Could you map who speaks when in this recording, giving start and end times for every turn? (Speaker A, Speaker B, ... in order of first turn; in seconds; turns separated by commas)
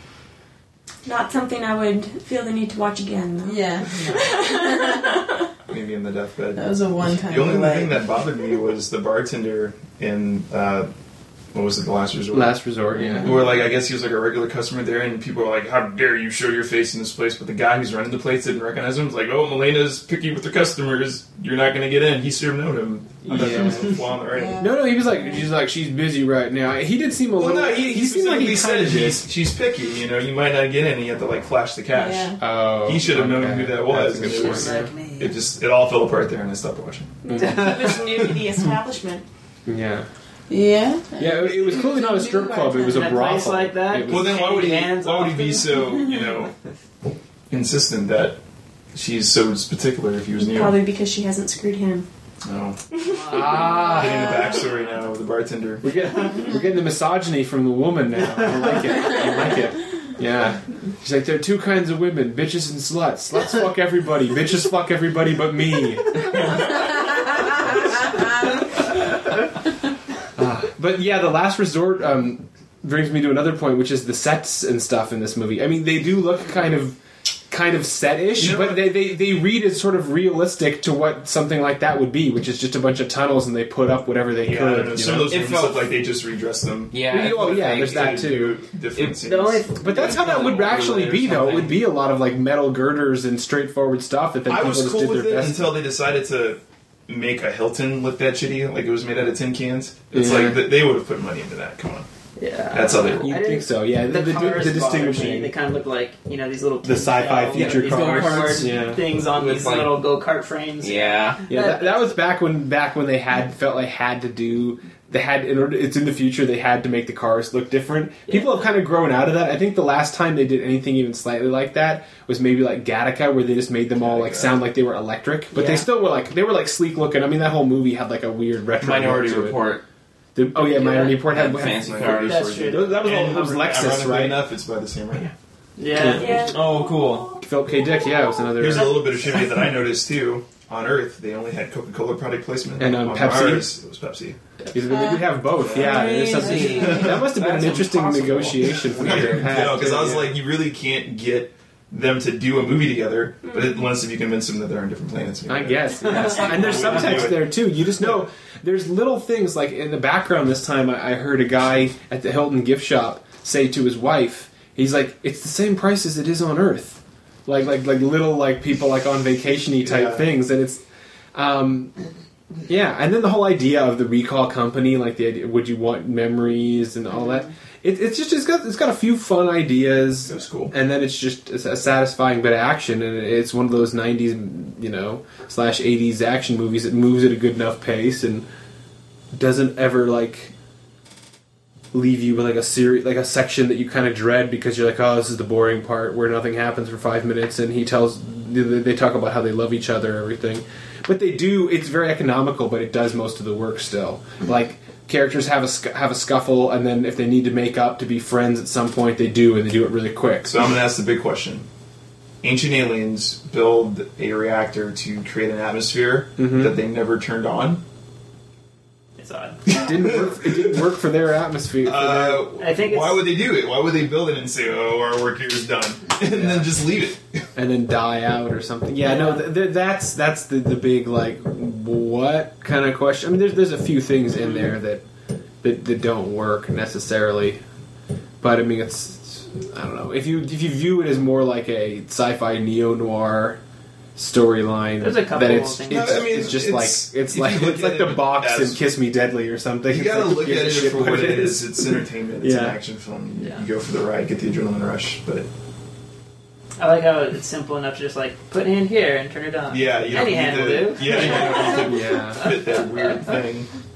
Speaker A: 1.1-5.4, Speaker B: 3.4-5.2, Speaker C: 5.7-10.9, Speaker B: 6.5-8.0, Speaker C: 11.5-24.7, Speaker D: 12.3-13.5, Speaker D: 23.2-24.0, Speaker B: 24.3-25.2, Speaker D: 24.6-29.3, Speaker C: 27.4-37.2, Speaker B: 31.9-32.4, Speaker D: 32.4-34.9, Speaker E: 34.2-35.4, Speaker A: 37.3-39.2, Speaker D: 37.3-37.6, Speaker E: 37.3-38.1, Speaker D: 39.7-40.1, Speaker B: 40.5-43.2, Speaker D: 41.2-44.5, Speaker E: 42.9-46.1, Speaker C: 44.1-46.5, Speaker C: 47.5-48.4, Speaker C: 48.9-50.9, Speaker A: 50.4-52.1, Speaker C: 52.4-52.8, Speaker E: 53.0-55.0, Speaker D: 53.3-54.5, Speaker C: 53.4-55.8, Speaker D: 55.8-66.7, Speaker D: 70.4-77.0, Speaker D: 77.5-85.4, Speaker C: 78.4-78.9, Speaker C: 84.4-89.7, Speaker F: 85.3-85.9, Speaker F: 86.9-88.3, Speaker D: 87.1-88.6, Speaker E: 89.1-91.1, Speaker D: 89.8-95.7, Speaker F: 89.9-91.8, Speaker C: 94.5-102.1, Speaker D: 100.1-100.7, Speaker E: 102.4-112.1, Speaker C: 102.7-103.3, Speaker D: 103.2-105.5, Speaker D: 106.8-109.0, Speaker F: 107.5-110.0, Speaker F: 110.8-111.4, Speaker D: 111.5-129.6, Speaker E: 118.3-118.6, Speaker C: 124.0-124.6, Speaker E: 125.5-125.9, Speaker F: 128.8-129.8, Speaker D: 130.3-132.1, Speaker E: 130.5-131.2, Speaker F: 131.2-132.6, Speaker C: 131.6-135.3, Speaker E: 132.2-133.3, Speaker D: 132.7-134.4, Speaker E: 135.8-136.5, Speaker D: 135.9-136.4, Speaker A: 136.2-136.6, Speaker F: 136.5-137.3, Speaker D: 137.4-139.3, Speaker C: 138.6-144.4, Speaker E: 139.0-139.4, Speaker D: 142.8-143.7, Speaker D: 144.7-150.4, Speaker B: 144.9-147.2, Speaker C: 145.6-146.1, Speaker F: 145.8-149.3, Speaker C: 146.7-147.3, Speaker C: 148.7-158.2, Speaker D: 155.5-170.8, Speaker C: 169.8-170.3, Speaker D: 171.3-171.9, Speaker D: 172.7-188.4, Speaker C: 180.3-180.7, Speaker D: 189.3-190.5, Speaker D: 191.9-210.5, Speaker C: 210.5-211.7, Speaker C: 212.4-217.8, Speaker D: 216.4-216.8, Speaker E: 219.2-219.7, Speaker C: 219.7-220.5, Speaker D: 219.7-222.5, Speaker C: 221.8-227.4, Speaker E: 222.6-223.2, Speaker D: 226.3-226.7, Speaker D: 227.6-235.0, Speaker E: 229.0-229.4, Speaker D: 235.6-237.6, Speaker D: 238.4-243.6, Speaker D: 244.2-252.8, Speaker E: 245.0-246.5, Speaker C: 245.9-248.8, Speaker C: 249.9-255.5, Speaker E: 253.4-253.7, Speaker E: 256.8-263.4, Speaker C: 259.7-263.7, Speaker D: 261.1-262.5